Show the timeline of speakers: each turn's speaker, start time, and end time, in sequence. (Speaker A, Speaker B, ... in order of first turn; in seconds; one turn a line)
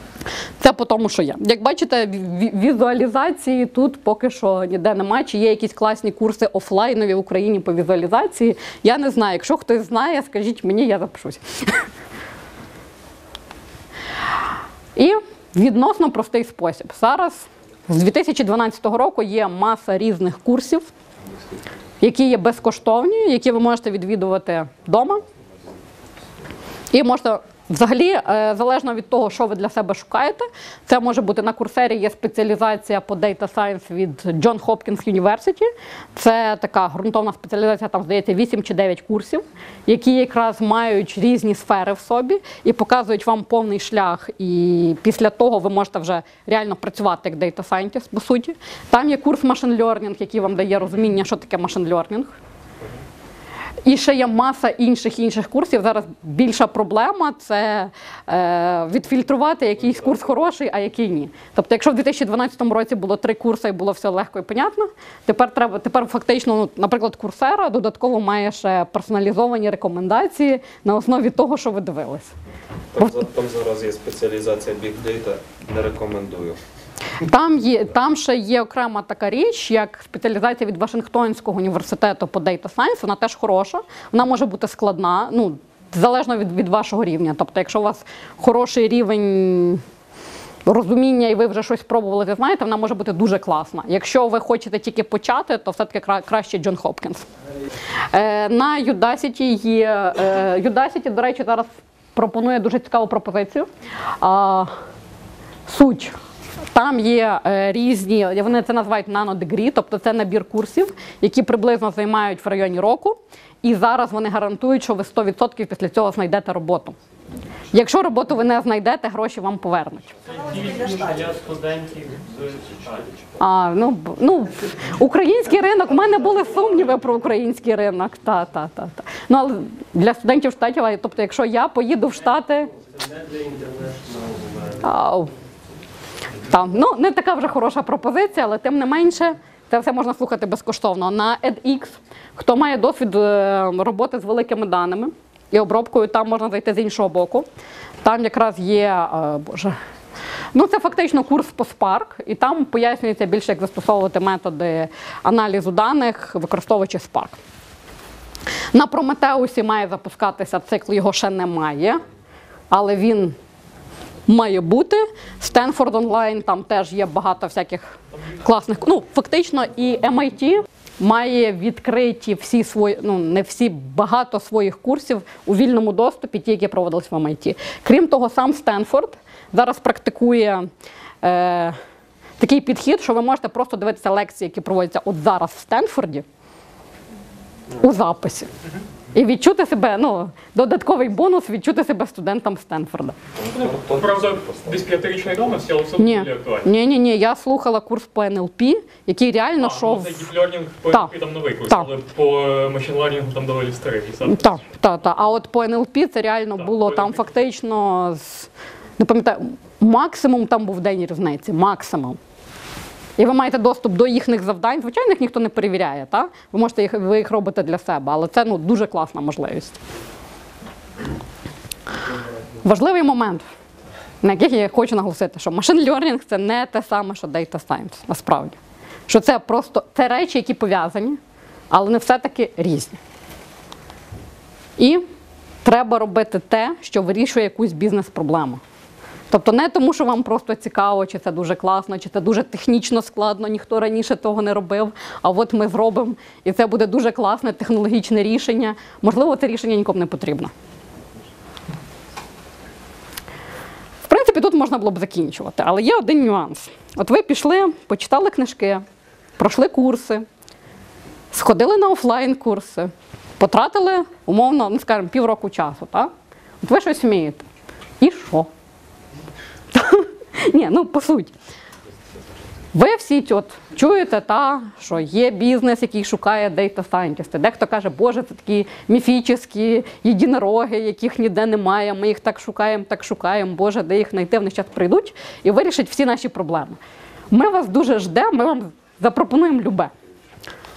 Speaker A: 0.6-11.9
Speaker A: 15.0-20.9
Speaker A: 22.0-25.2
Speaker A: 26.9-52.4
Speaker A: 53.9-72.3
Speaker B: 73.0-76.6
Speaker A: 77.2-89.8
Speaker A: 90.7-97.3
Speaker A: 98.1-103.7
Speaker A: 104.2-104.7
Speaker A: 105.7-106.2
Speaker A: 106.7-117.0
Speaker A: 117.7-120.2
Speaker C: 120.5-122.4
Speaker A: 123.4-132.7
Speaker A: 134.8-135.3
Speaker A: 136.4-147.5
Speaker A: 148.0-149.8
Speaker A: 150.5-157.4
Speaker A: 158.7-162.0
Speaker A: 162.7-163.4
Speaker A: 164.3-180.7
Speaker A: 181.2-181.8
Speaker A: 182.4-186.2
Speaker A: 187.8-188.5
Speaker A: 189.2-193.2
Speaker B: 193.4-195.0
Speaker C: 193.6-196.7
Speaker A: 196.0-200.3
Speaker C: 199.6-204.6
Speaker A: 204.3-212.2
Speaker C: 206.6-207.2
Speaker A: 213.2-219.8
Speaker A: 222.6-223.4
Speaker A: 224.2-228.6
Speaker A: 229.1-231.2
Speaker A: 231.7-233.0
Speaker A: 234.8-235.0
Speaker A: 235.6-238.6
Speaker A: 239.3-250.5
Speaker A: 254.1-258.8
Speaker A: 259.4-260.3
Speaker A: 261.3-266.1
Speaker A: 266.6-267.4
Speaker A: 268.0-268.5
Speaker A: 269.7-271.3
Speaker A: 272.7-286.8
Speaker A: 287.3-289.9